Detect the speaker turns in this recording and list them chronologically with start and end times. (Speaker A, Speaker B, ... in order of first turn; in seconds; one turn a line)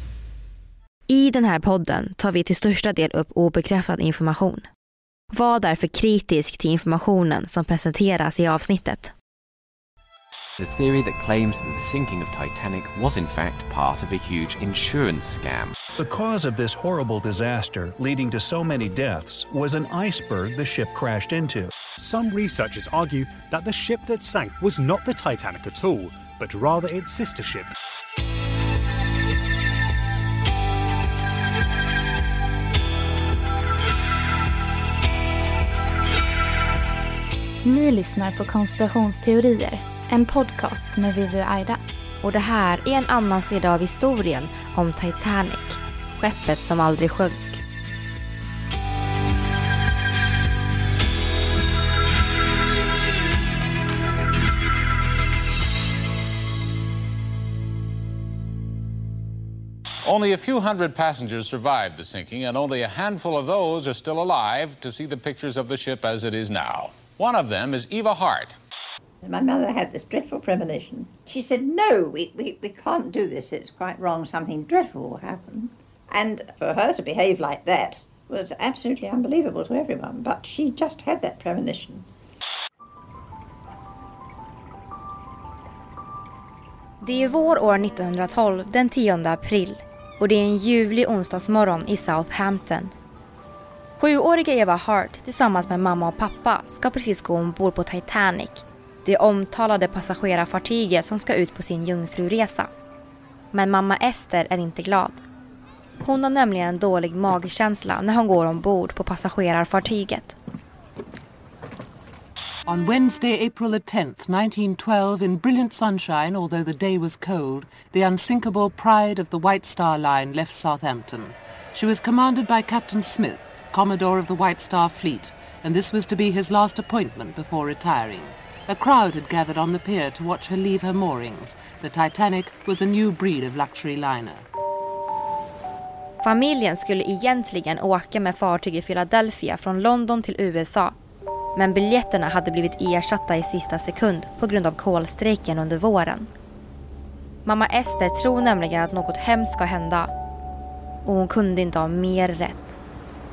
Speaker A: 1.1-4.7
Speaker A: 5.3-9.1
Speaker B: 10.6-15.7
Speaker C: 16.0-21.7
Speaker D: 22.0-27.7
Speaker E: 37.6-41.8
Speaker A: 42.2-47.6
Speaker F: 60.0-68.6
Speaker G: 69.2-82.1
Speaker A: 87.0-92.9
Speaker A: 94.0-102.7
Speaker A: 103.5-105.2
Speaker A: 106.0-110.4
Speaker H: 112.7-134.4
Speaker A: 136.2-140.9
Speaker A: 141.6-146.3
Speaker A: 147.4-150.1
Speaker A: 151.0-152.8